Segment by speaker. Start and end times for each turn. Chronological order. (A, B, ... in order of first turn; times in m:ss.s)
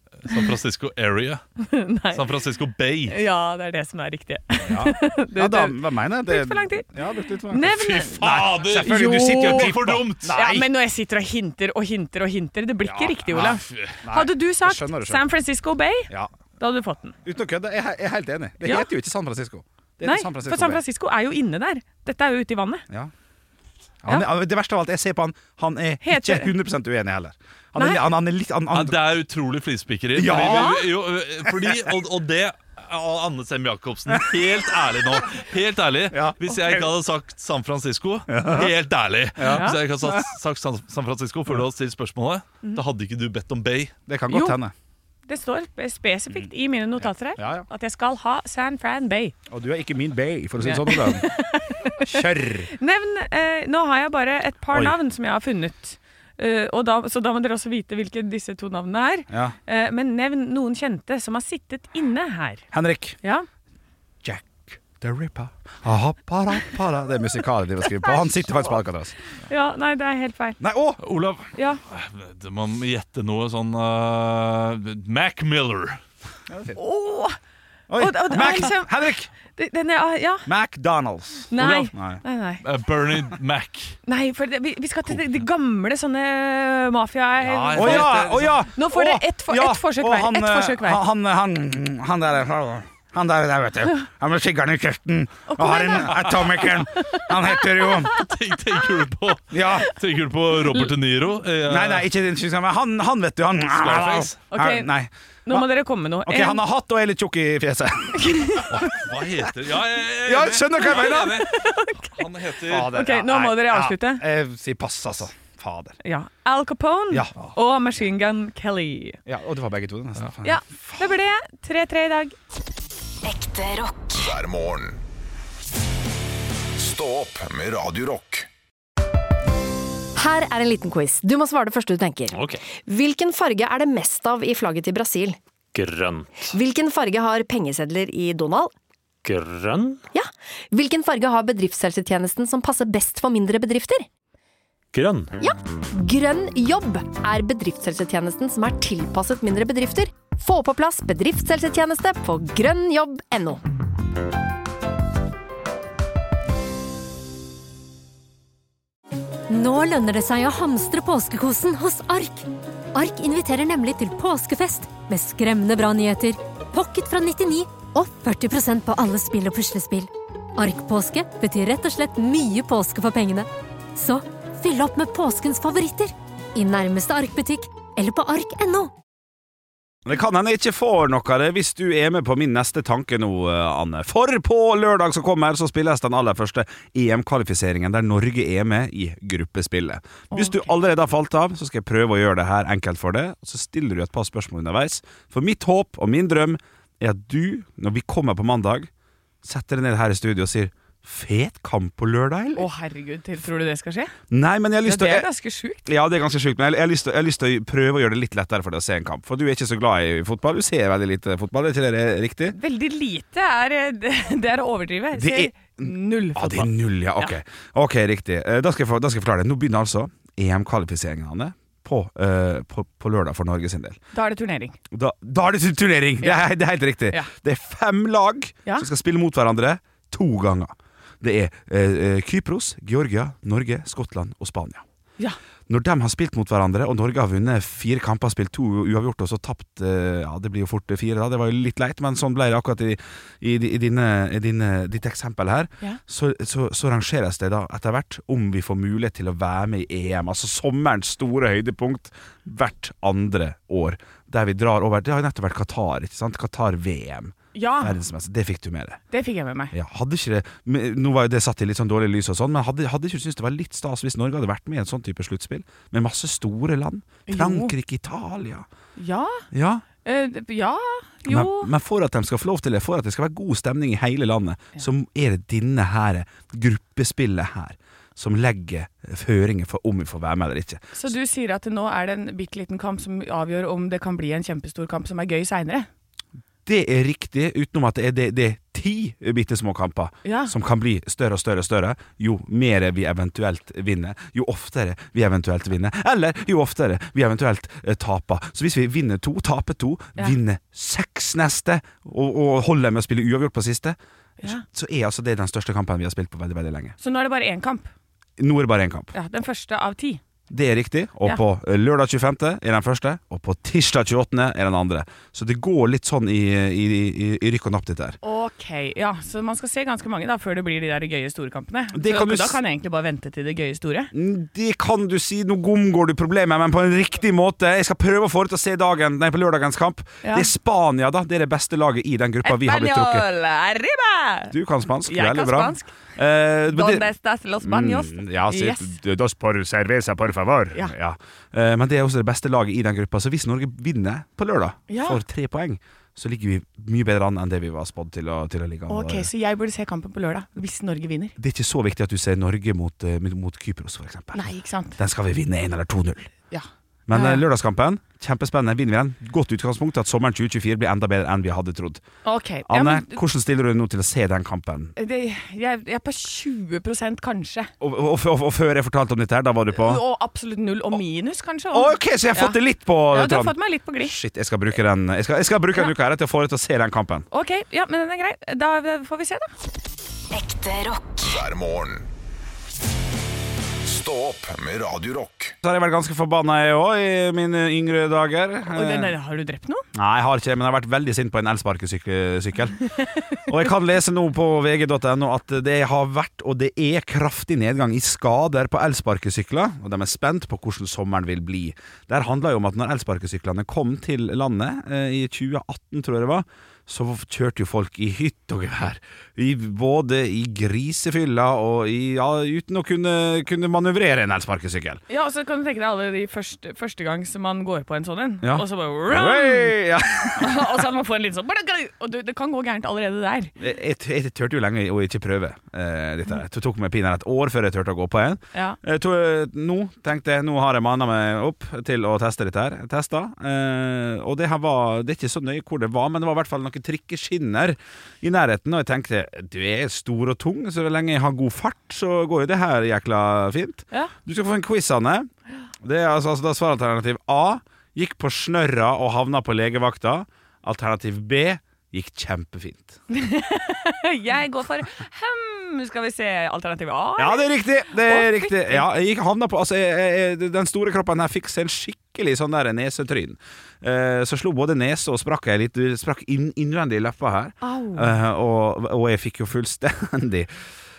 0:00.2-0:01.4 A
0:01.6-0:02.2 B
0:02.1-0:03.2 A
0:03.1-0:09.7 B
0:04.6-0:10.7 C
0:07.6-0:10.3 A
0:10.2-0:17.2 B
0:12.8-0:15.2 C
0:17.2-0:20.8 C
0:18.6-0:18.9 B
0:20.0-0:22.8 B
0:24.0-0:29.0 C
0:26.0-0:26.5 B
0:27.8-0:28.0 B
0:28.7-0:43.9 A
0:30.1-0:31.9 C
0:30.3-0:30.8 B
0:34.1-0:34.4 C
0:36.1-0:36.9 C
0:38.3-0:38.7 C
0:39.4-0:40.3 C
0:39.5-0:39.8 B
0:44.1-0:44.7 C
0:44.3-0:44.6 B
0:45.3-0:49.3 B
0:47.4-0:47.7 C
0:49.5-0:51.3 C
0:50.6-1:02.6 B
0:52.0-0:52.7 C
0:59.3-0:59.6 C
1:02.7-1:03.2 C
1:04.2-1:09.1 C
1:08.0-1:08.6 B
1:09.5-1:10.6 B
1:10.6-1:11.0 C
1:11.0-1:16.0 A
1:16.5-1:16.8 C
1:16.7-1:17.4 B
1:17.9-1:19.3 C
1:18.0-1:19.0 B
1:19.5-1:20.5 B
1:20.4-1:22.2 C
1:21.5-1:22.6 B
1:21.6-1:21.9 A
1:22.6-1:24.0 A
1:24.1-1:31.0 B
1:27.4-1:28.6 A
1:27.7-1:38.1 C
1:35.5-1:38.2 B
1:38.1-1:42.1 A
1:39.5-1:39.9 C
1:41.7-1:45.6 C
1:43.7-1:44.4 A
1:44.5-1:44.9 B
1:45.4-1:46.6 B
1:46.2-1:48.7 C
1:48.1-1:48.7 B
1:48.7-1:53.0 A
1:50.2-1:51.4 C
1:50.9-1:54.2 B
1:52.6-1:55.9 C
1:56.0-1:59.2 B
1:57.1-1:57.4 C
1:59.2-2:01.2 C
2:00.4-2:02.4 B
2:03.2-2:03.9 D
2:04.1-2:05.0 E
2:06.8-2:08.5 E
2:10.2-2:15.4 D
2:12.3-2:12.6 F
2:15.7-2:16.5 F
2:16.5-2:18.7 D
2:19.2-2:20.0 F
2:20.1-2:24.0 D
2:24.9-2:25.4 F
2:25.4-2:33.6 D
2:39.5-2:58.9 G
3:00.0-3:18.9 C
3:10.3-3:10.7 B
3:19.4-3:22.7 C
3:22.6-3:24.1 B
3:24.3-3:25.3 C
3:24.8-3:25.9 B
3:25.8-3:32.6 C
3:32.5-3:37.3 B
3:35.1-3:44.0 C
3:44.1-3:44.8 B
3:44.9-3:54.8 C
3:55.7-4:19.0 C
4:17.5-4:18.0 B
4:19.1-4:19.7 B
4:19.7-4:28.7 C
4:27.3-4:27.7 B
4:29.0-4:29.4 B
4:29.5-4:29.8 C
4:30.0-4:31.7 B
4:31.3-4:40.8 C
4:41.0-4:45.9 B
4:46.6-5:06.9 C
4:50.2-4:50.5 B
5:07.0-5:07.9 B
5:08.4-5:09.1 C
5:09.1-5:10.2 B
5:10.5-5:18.2 C
5:18.2-5:24.1 B
5:21.9-5:22.6 C
5:24.1-5:33.2 C
5:30.2-5:30.5 B
5:32.4-5:34.5 B
5:34.5-5:37.1 C
5:35.1-5:35.9 B
5:36.7-5:38.9 B
5:37.6-5:49.3 C
5:44.9-5:45.2 B
5:48.9-5:51.4 B
5:51.4-5:56.3 C
5:54.3-5:55.0 B
5:56.5-5:57.4 B
5:57.1-6:02.0 C
6:02.2-6:03.2 B
6:02.6-6:04.9 C
6:05.0-6:07.7 B
6:07.8-6:10.0 C
6:09.8-6:12.6 B
6:11.7-6:17.3 C
6:13.1-6:14.2 B
6:17.3-6:19.5 B
6:20.4-6:22.1 E
6:23.8-6:25.5 E
6:25.6-6:29.1 C
6:28.7-6:29.8 B
6:29.9-6:32.8 C
6:33.4-6:55.0 C
6:55.1-7:03.5 B
6:58.4-7:00.8 C
7:03.6-7:25.3 C
7:25.8-7:33.0 C
7:33.1-7:38.9 B
7:37.2-7:50.5 C
7:47.6-7:48.1 B